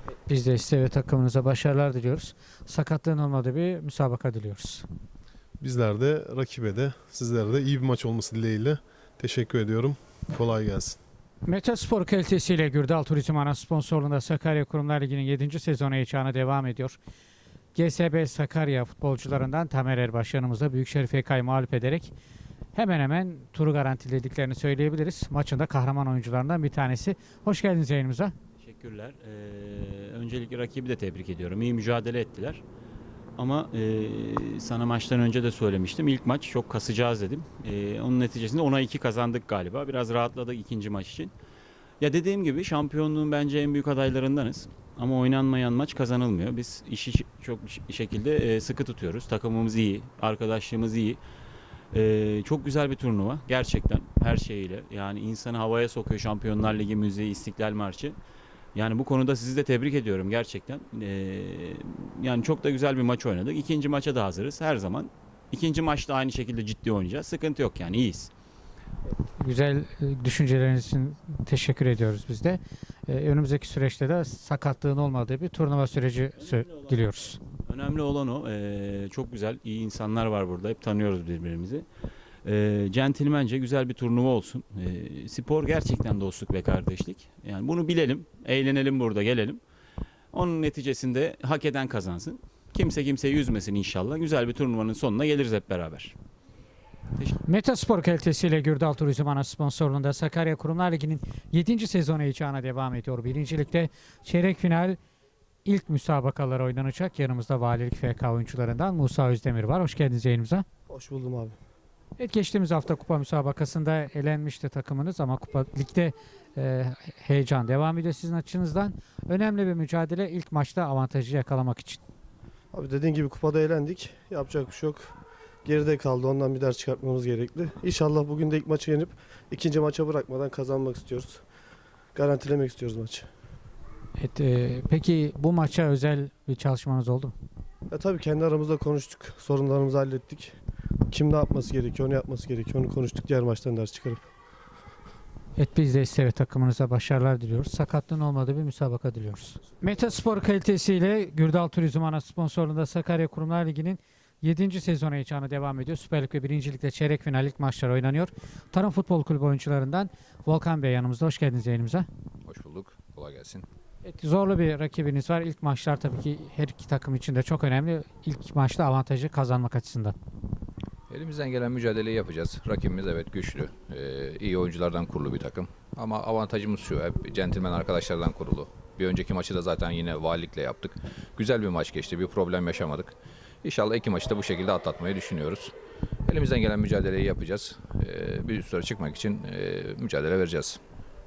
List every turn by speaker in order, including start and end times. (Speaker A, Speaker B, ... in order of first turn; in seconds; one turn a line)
Speaker A: 0.3-4.8
Speaker B: 5.6-11.0
Speaker A: 11.5-17.0
Speaker A: 17.7-22.1
Speaker A: 22.7-28.3
Speaker C: 28.6-32.6
Speaker C: 33.4-41.3
Speaker C: 42.0-51.2
Speaker C: 51.9-58.2
Speaker C: 58.7-68.3
Speaker A: 69.4-77.4
Speaker C: 77.7-81.8
Speaker C: 82.4-89.6
Speaker C: 90.3-96.1
Speaker A: 97.4-105.0
Speaker A: 105.6-110.6
Speaker D: 110.9-111.6
Speaker A: 112.2-122.0
Speaker D: 122.7-131.4
Speaker D: 132.1-133.3
Speaker A: 134.2-137.3
Speaker D: 137.9-140.6
Speaker D: 141.1-144.3
Speaker A: 145.6-162.1
Speaker E: 162.4-163.7
Speaker A: 164.0-170.1
Speaker E: 171.1-185.7
Speaker E: 186.3-190.8